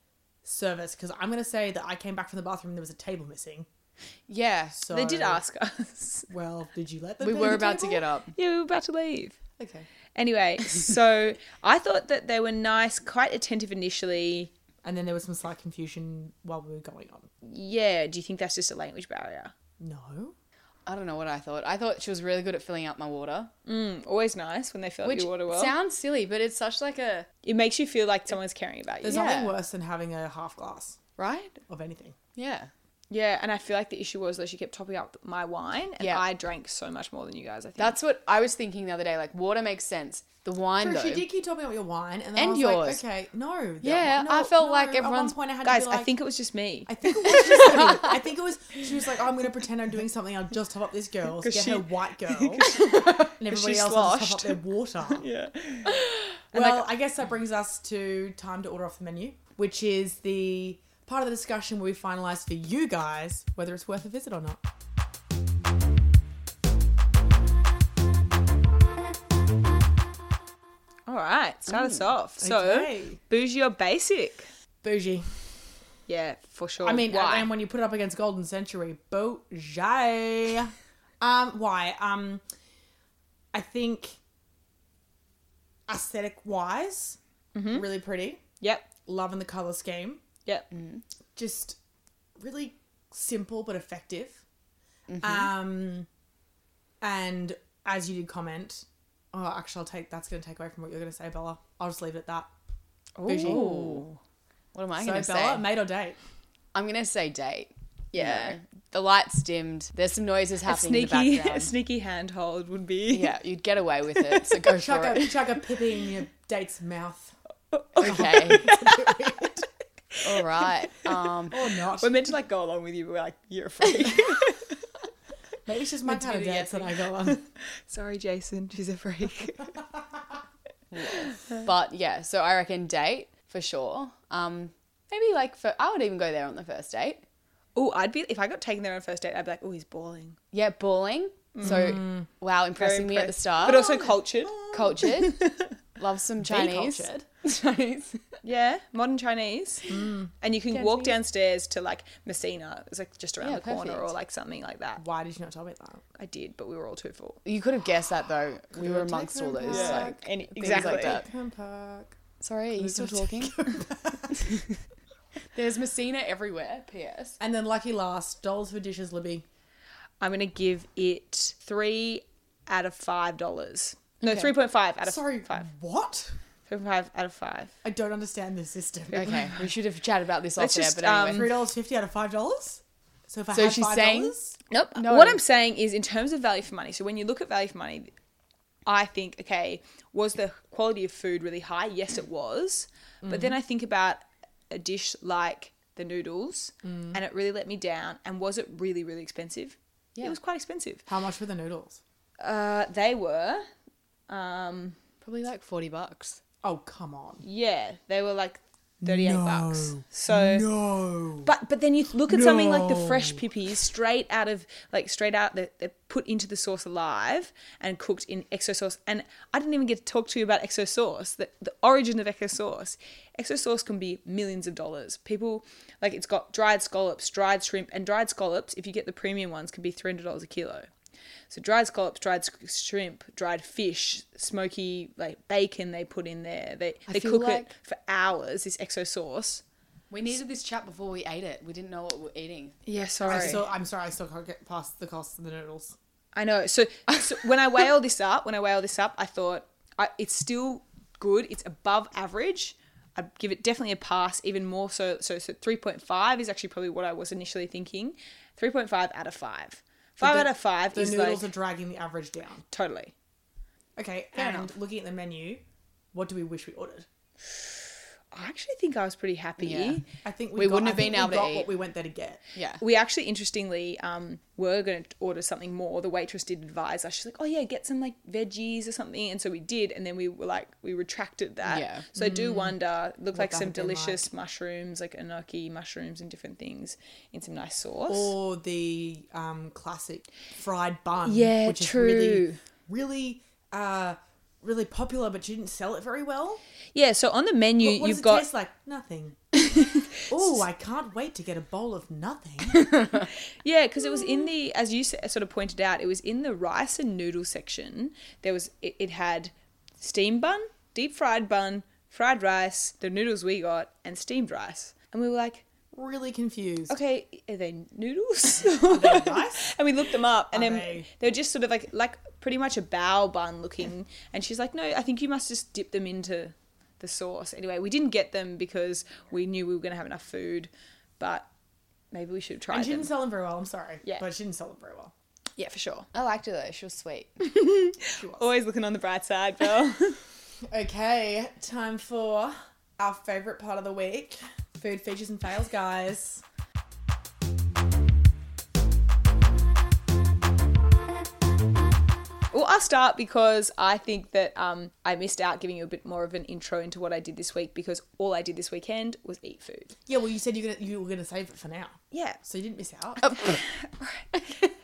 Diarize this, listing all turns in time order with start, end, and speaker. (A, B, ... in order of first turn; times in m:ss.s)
0:00.4-0:03.7 A
0:04.3-0:04.8 B
0:04.8-0:05.4 A
0:04.9-0:06.3 C
0:06.3-0:08.0 A
0:07.2-0:08.3 B
0:08.3-0:09.4 C
0:09.6-0:09.9 A
0:10.2-0:14.5 C
0:14.8-0:17.3 A
0:17.4-0:19.5 C
0:19.8-0:20.4 A
0:20.9-0:23.5 B
0:23.7-0:25.7 C
0:25.0-0:27.3 B
0:27.4-0:29.3 C
0:29.0-0:31.0 A
0:29.1-0:29.6 B
0:31.2-0:31.6 B
0:31.7-0:32.2 A
0:32.4-0:32.7 B
0:33.1-0:38.0 C
0:37.8-0:41.3 B
0:40.8-0:46.1 A
0:42.4-0:43.0 B
0:43.8-0:45.4 B
0:45.6-0:48.0 C
0:46.9-0:55.3 A
0:51.4-0:56.9 C
0:56.5-1:04.6 A
1:11.1-1:14.5 C
1:11.7-1:12.0 B
1:12.4-1:13.2 A
1:14.8-1:15.4 A
1:16.1-1:17.5 C
1:16.8-1:22.4 A
1:23.5-1:24.2 A
1:25.9-1:28.4 A
1:27.6-1:27.9 C
1:28.6-1:28.9 C
1:29.0-1:30.2 A
1:30.7-1:31.0 B
1:31.4-1:31.8 A
1:32.4-1:34.4 A
1:35.1-1:35.5 B
1:35.2-1:36.1 A
1:37.0-1:42.5 A
1:43.2-1:44.2 C
1:43.2-1:44.0 A
1:43.4-1:44.0 B
1:44.7-1:45.7 B
1:45.0-1:46.2 A
1:46.7-1:51.7 B
1:48.2-1:48.6 C
1:50.7-1:53.4 C
1:53.1-1:55.5 B
1:54.7-1:57.4 A
1:57.7-1:58.8 C
1:58.0-1:58.7 B
1:58.0-1:59.7 A
2:00.2-2:01.7 B
2:01.5-2:02.2 A
2:02.0-2:04.8 C
2:05.7-2:07.4 A
2:06.0-2:07.0 B
2:07.8-2:09.8 C
2:10.9-2:17.2 B
2:17.8-2:20.4 C
2:20.5-2:28.2 B
2:21.6-2:22.0 C
2:21.6-2:22.3 A
2:22.8-2:25.7 C
2:26.4-2:27.2 A
2:28.4-2:29.9 C
2:29.9-2:30.3 A
2:30.4-2:35.0 C
2:30.7-2:31.2 B
2:33.4-2:34.1 B
2:35.0-2:36.0 A
2:36.2-2:37.4 C
2:37.4-2:41.3 B
2:38.7-2:42.2 A
2:39.7-2:41.2 C
2:42.4-2:43.6 B
2:42.8-2:44.5 A
2:44.4-2:44.6 B
2:45.5-2:47.4 B
2:47.4-2:49.4 A
2:50.2-2:55.7 C
2:55.0-2:56.4 A
2:56.7-2:57.7 C
2:57.8-2:59.6 A
2:59.1-3:01.5 B
3:00.6-3:01.6 C
3:01.3-3:04.6 A
3:03.5-3:04.4 B
3:04.7-3:08.1 C
3:05.0-3:05.4 B
3:08.9-3:21.0 C
3:13.2-3:13.6 A
3:16.8-3:17.2 A
3:21.1-3:22.0 A
3:22.4-3:23.7 C
3:24.3-3:25.0 C
3:25.2-3:26.4 B
3:26.6-3:27.4 A
3:27.4-3:30.7 C
3:29.0-3:31.5 A
3:31.4-3:50.9 C
3:32.3-3:33.4 A
3:51.5-3:59.6 C
3:57.1-3:57.7 B
4:00.1-4:03.6 B
4:02.9-4:03.6 C
4:03.3-4:06.0 A
4:06.4-4:21.5 C
4:20.2-4:22.6 A
4:22.7-4:23.1 C
4:24.0-4:25.6 A
4:24.4-4:24.7 B
4:26.1-4:27.1 A
4:28.3-4:30.0 C
4:29.6-4:30.0 B
4:30.2-4:32.4 A
4:30.6-4:31.7 B
4:32.6-4:32.8 B
4:32.8-4:48.3 C
4:41.6-4:42.1 B
4:42.2-4:42.7 A
4:43.3-4:44.3 A
4:48.1-4:56.6 A
4:51.2-4:52.6 C
4:56.9-4:58.5 C
4:57.8-4:59.4 A
4:59.6-5:00.4 C
5:00.3-5:03.0 A
5:03.6-5:15.6 C
5:15.9-5:17.0 A
5:16.9-5:31.5 C
5:18.8-5:19.7 A
5:20.5-5:21.1 A
5:32.1-5:33.1 C
5:32.7-5:35.1 A
5:35.6-5:36.1 C
5:36.1-5:37.4 B
5:37.4-5:40.2 C
5:38.1-5:38.5 A
5:40.7-5:46.4 A
5:52.5-5:59.9 C
6:00.1-6:03.4 A
6:02.1-6:02.4 C
6:03.4-6:04.4 C